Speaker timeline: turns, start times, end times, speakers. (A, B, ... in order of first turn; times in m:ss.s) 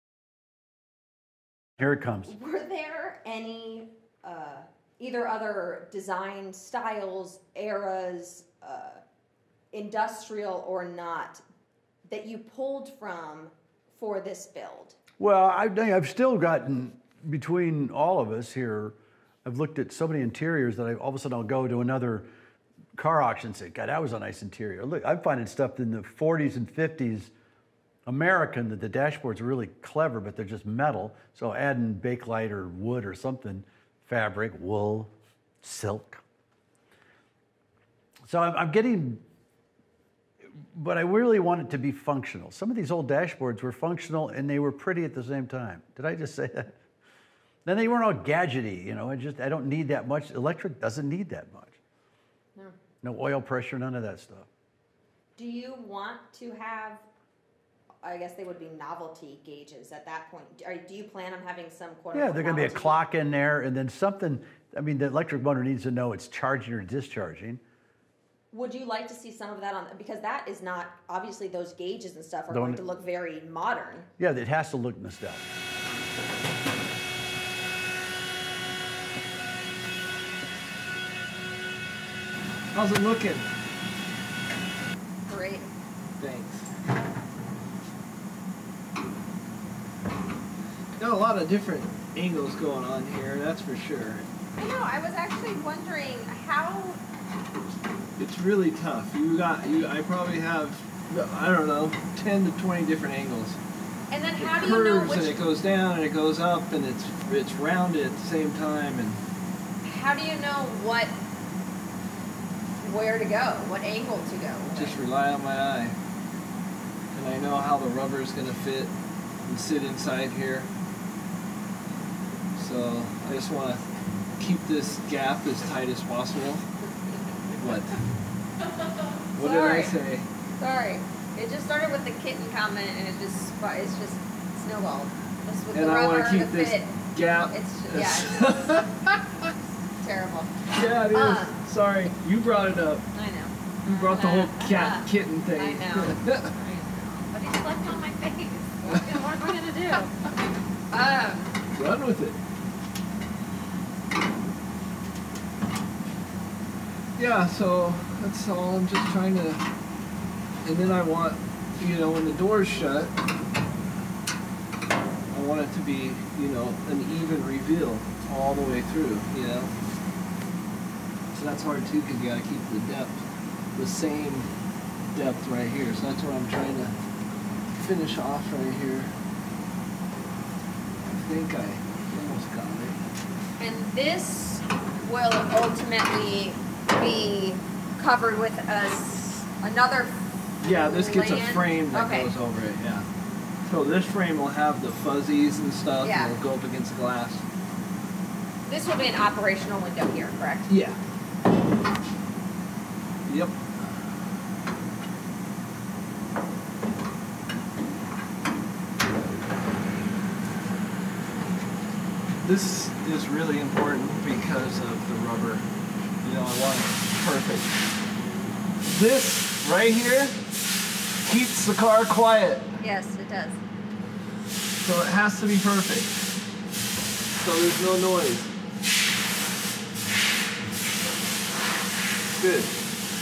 0:01.8-0:02.3 A
0:02.2-0:09.0 B
0:09.7-0:11.4 B
0:12.1-0:15.0 B
0:15.2-0:22.3 A
0:23.0-0:27.3 A
0:28.0-0:36.2 A
0:38.3-0:39.2 A
0:40.6-0:46.7 A
0:47.6-0:51.8 A
0:53.0-0:54.5 A
0:55.4-0:57.0 B
0:58.0-1:03.0 B
1:02.1-1:07.6 A
1:08.5-1:14.1 B
1:12.5-1:12.8 A
1:14.2-1:15.4 A
1:22.7-1:23.5 C
1:25.3-1:25.7 B
1:26.2-1:26.7 C
1:31.0-1:34.2 C
1:34.6-1:37.0 B
1:38.2-1:43.6 C
1:44.1-1:45.4 B
1:44.4-1:49.2 C
1:49.8-1:51.1 B
1:52.8-1:55.0 B
1:54.8-1:56.0 C
1:57.1-1:58.9 C
1:59.4-2:00.7 C
2:02.6-2:03.8 C
2:04.4-2:06.7 C
2:07.6-2:08.0 C
2:09.3-2:10.3 C
2:09.4-2:09.9 B
2:10.6-2:18.8 B
2:15.7-2:19.5 C
2:20.0-2:21.6 B
2:20.7-2:23.1 C
2:23.1-2:30.1 B
2:23.8-2:26.5 C
2:30.9-2:31.6 B
2:31.7-2:32.4 C
2:37.2-2:39.6 C
2:40.6-2:43.1 C
2:45.3-2:49.7 C
2:51.3-2:53.2 C
2:53.7-2:54.5 C
2:55.1-2:56.9 C
2:57.8-2:59.1 C
3:01.1-3:03.0 C
3:03.6-3:12.3 B
3:10.6-3:13.1 C
3:13.6-3:17.4 C
3:16.0-3:16.4 B
3:18.6-3:20.7 B
3:20.7-3:21.0 C
3:23.3-3:23.6 C
3:32.4-3:35.6 C
3:36.2-3:37.7 C
3:38.8-3:40.4 C
3:41.2-3:42.8 C
3:42.8-3:43.6 B
3:44.8-3:46.1 C
3:47.4-3:48.5 C
3:52.3-3:52.8 C